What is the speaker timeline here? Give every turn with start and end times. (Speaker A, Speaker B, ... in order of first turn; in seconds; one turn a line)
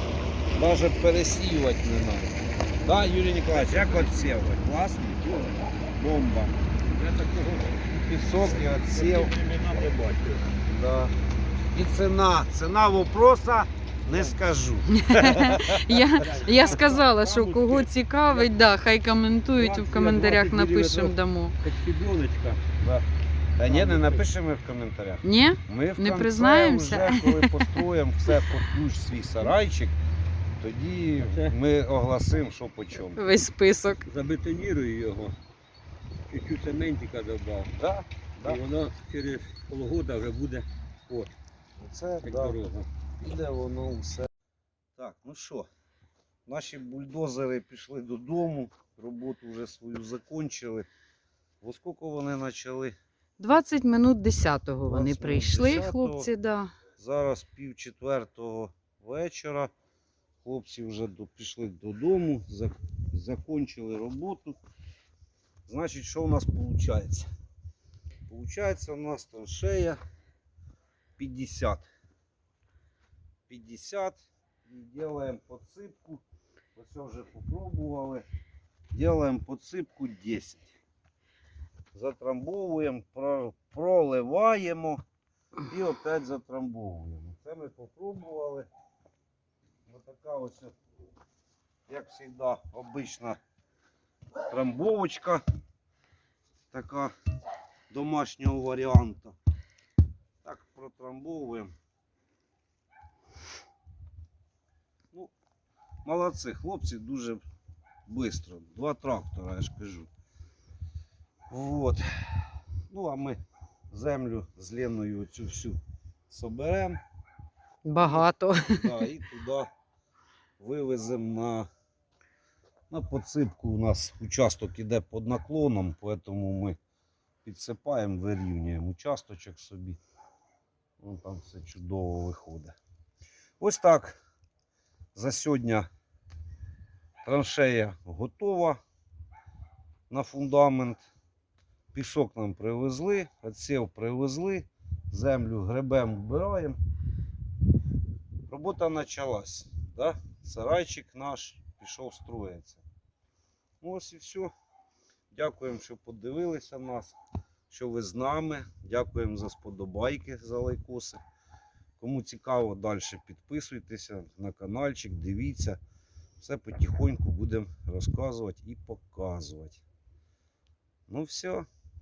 Speaker A: 0.6-5.2
Speaker B: 3.6-4.0
Speaker A: 5.9-6.6
Speaker B: 6.9-7.8
Speaker A: 8.0-9.3
Speaker B: 8.9-10.5
Speaker A: 10.7-11.1
Speaker A: 11.7-16.8
Speaker B: 14.1-14.4
Speaker C: 14.9-21.6
Speaker B: 16.2-18.5
Speaker B: 19.6-22.6
Speaker A: 22.8-23.0
Speaker A: 23.6-29.9
Speaker B: 23.6-24.2
Speaker C: 25.2-27.7
Speaker A: 30.6-33.2
Speaker B: 31.2-31.5
Speaker C: 33.1-34.0
Speaker B: 34.0-35.3
Speaker B: 36.3-37.7
Speaker A: 37.8-38.6
Speaker B: 38.4-41.3
Speaker A: 41.8-42.6
Speaker B: 42.2-42.9
Speaker A: 43.2-44.3
Speaker A: 45.0-45.7
Speaker A: 46.5-50.9
Speaker A: 51.6-52.9
Speaker C: 53.4-56.7
Speaker A: 54.9-56.3
Speaker A: 57.0-59.7
Speaker A: 60.4-64.6
Speaker A: 65.7-67.3
Speaker A: 68.3-70.0
Speaker A: 71.2-71.8
Speaker A: 73.5-76.2
Speaker A: 76.8-78.2
Speaker A: 78.9-80.7
Speaker A: 81.9-85.0
Speaker A: 85.7-88.7
Speaker A: 89.8-90.7
Speaker A: 91.9-93.4
Speaker A: 94.5-95.4
Speaker A: 96.7-97.1
Speaker A: 97.9-99.3
Speaker A: 100.4-101.7
Speaker A: 106.0-107.4
Speaker A: 108.1-110.1
Speaker A: 111.5-115.8
Speaker A: 116.3-117.0
Speaker C: 117.8-119.0
Speaker A: 118.0-119.7
Speaker A: 120.6-121.7
Speaker A: 122.9-126.8
Speaker A: 127.4-130.0
Speaker A: 131.0-132.8
Speaker A: 133.6-134.2
Speaker A: 135.1-135.9
Speaker A: 137.2-138.8
Speaker A: 140.1-141.0
Speaker A: 141.9-146.8
Speaker A: 148.5-152.8
Speaker A: 153.8-154.5
Speaker A: 155.3-157.2
Speaker A: 157.7-161.2
Speaker A: 162.0-165.8
Speaker A: 166.4-169.8
Speaker A: 171.1-171.7